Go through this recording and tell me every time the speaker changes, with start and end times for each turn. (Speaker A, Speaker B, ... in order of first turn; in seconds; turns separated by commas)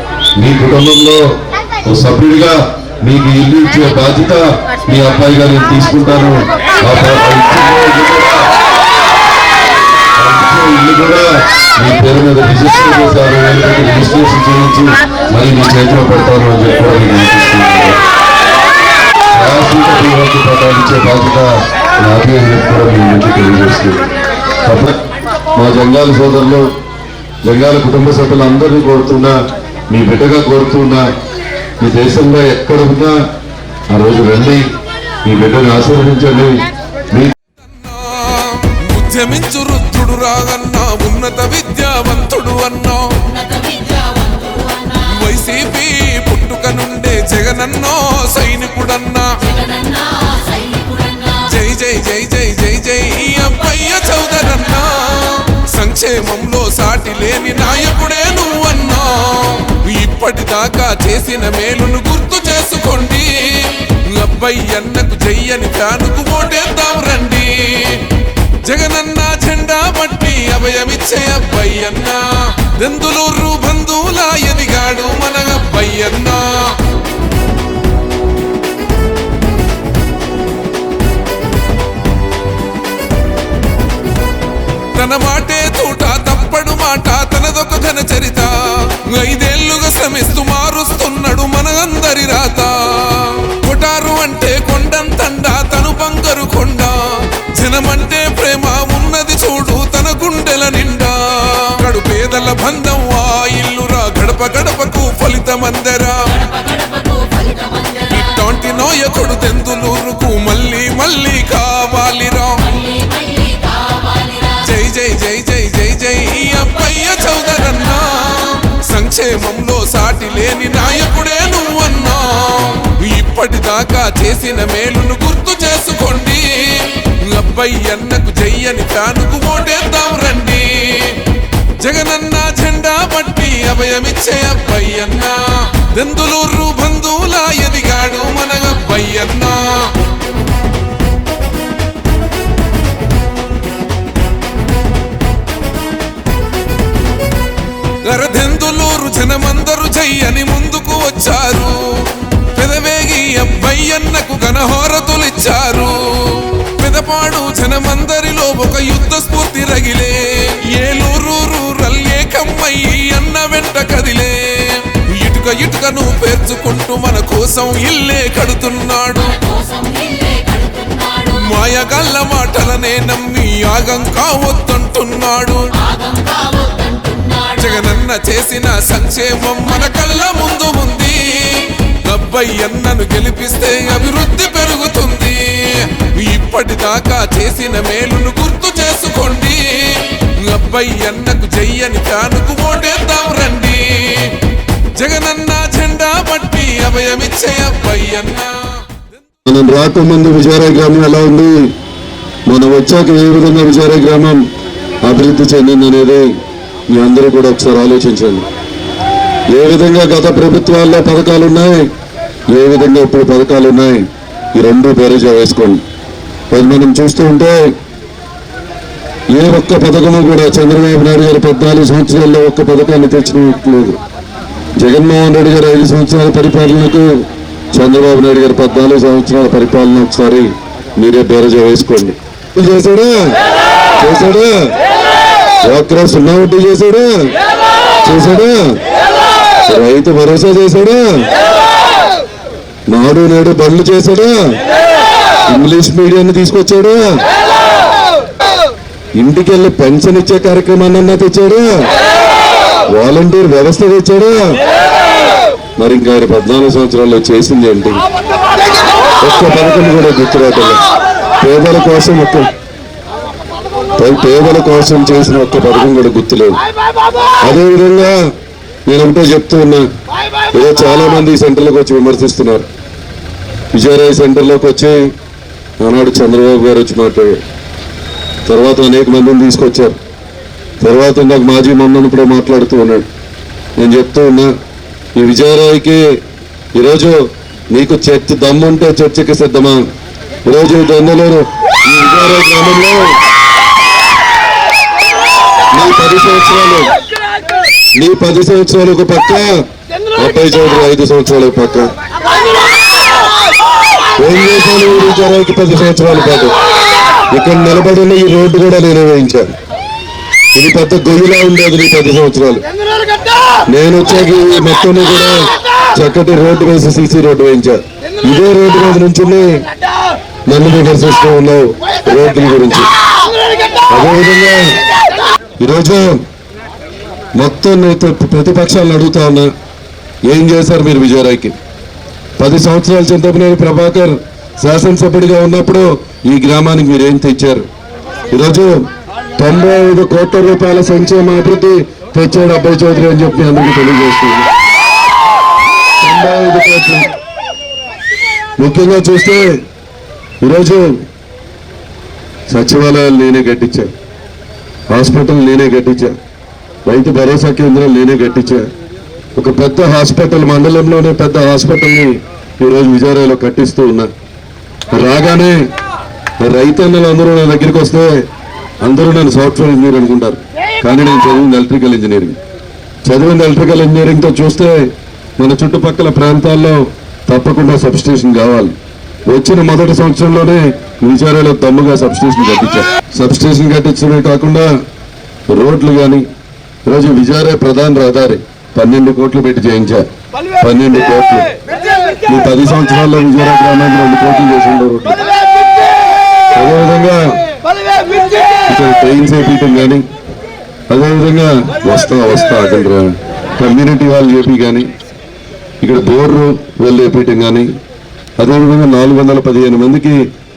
Speaker A: 0.4-8.5, Speaker A: 10.2-18.0, Speaker A: 19.3-24.1, Speaker A: 24.6-25.0, Speaker A: 25.6-26.7, Speaker A: 27.4-29.4, Speaker A: 29.9-31.1, Speaker A: 31.8-33.2, Speaker A: 33.9-34.6, Speaker A: 35.2-37.3, Speaker B: 37.6-43.2, Speaker C: 43.2-45.2, Speaker B: 45.1-49.4, Speaker C: 49.4-51.6, Speaker B: 51.5-68.1, Speaker B: 68.6-76.8, Speaker B: 84.9-106.3, Speaker C: 106.3-108.4, Speaker B: 108.1-112.6, Speaker C: 112.6-114.7, Speaker B: 114.6-131.2, Speaker B: 131.8-140.0, Speaker B: 148.1-169.3, Speaker C: 169.2-171.5, Speaker B: 171.4-175.7, Speaker C: 175.7-177.8, Speaker B: 177.6-194.4, Speaker B: 195.0-199.0, Speaker A: 199.5-201.7, Speaker A: 202.5-204.4, Speaker A: 205.0-206.3, Speaker A: 206.9-208.5, Speaker A: 209.5-211.9, Speaker A: 212.5-215.8, Speaker A: 216.5-217.7, Speaker A: 219.3-224.0, Speaker A: 224.8-233.4, Speaker A: 234.0-234.8, Speaker A: 235.6-237.3, Speaker A: 238.0-238.8, Speaker A: 239.7-241.3, Speaker A: 242.9-244.5, Speaker A: 245.5-247.2, Speaker A: 249.2-251.9, Speaker A: 252.9-254.6, Speaker A: 255.8-258.0, Speaker A: 259.2-260.8, Speaker A: 261.4-262.5, Speaker A: 264.0-266.6, Speaker A: 267.4-268.2, Speaker A: 268.9-269.9, Speaker A: 270.5-272.7, Speaker A: 273.7-275.1, Speaker A: 275.8-277.4, Speaker A: 278.5-280.0, Speaker A: 280.8-283.1, Speaker A: 283.8-284.5, Speaker A: 285.1-286.2, Speaker A: 286.7-289.9, Speaker A: 290.5-293.2, Speaker A: 295.7-296.9, Speaker A: 298.0-301.9, Speaker A: 304.2-306.6, Speaker A: 307.3-309.5, Speaker A: 310.6-312.6, Speaker A: 313.7-319.6, Speaker A: 320.5-322.9, Speaker A: 323.9-324.8, Speaker A: 325.6-326.2, Speaker A: 327.4-329.5, Speaker A: 330.2-331.6, Speaker A: 332.4-337.6, Speaker A: 338.3-338.9, Speaker A: 339.4-344.5, Speaker A: 346.0-347.1, Speaker A: 348.6-349.6, Speaker A: 350.4-351.0, Speaker A: 352.5-353.9, Speaker A: 354.9-356.1, Speaker A: 356.9-358.7, Speaker A: 359.4-364.1, Speaker A: 364.9-365.6, Speaker A: 366.4-368.3, Speaker A: 368.8-372.4, Speaker A: 373.1-378.8, Speaker A: 379.3-384.7, Speaker A: 385.5-386.3, Speaker A: 386.9-390.1, Speaker A: 390.6-391.5, Speaker A: 392.3-395.2, Speaker A: 396.5-397.3, Speaker A: 398.7-400.1, Speaker A: 400.9-404.9, Speaker A: 405.8-407.7, Speaker A: 408.4-410.2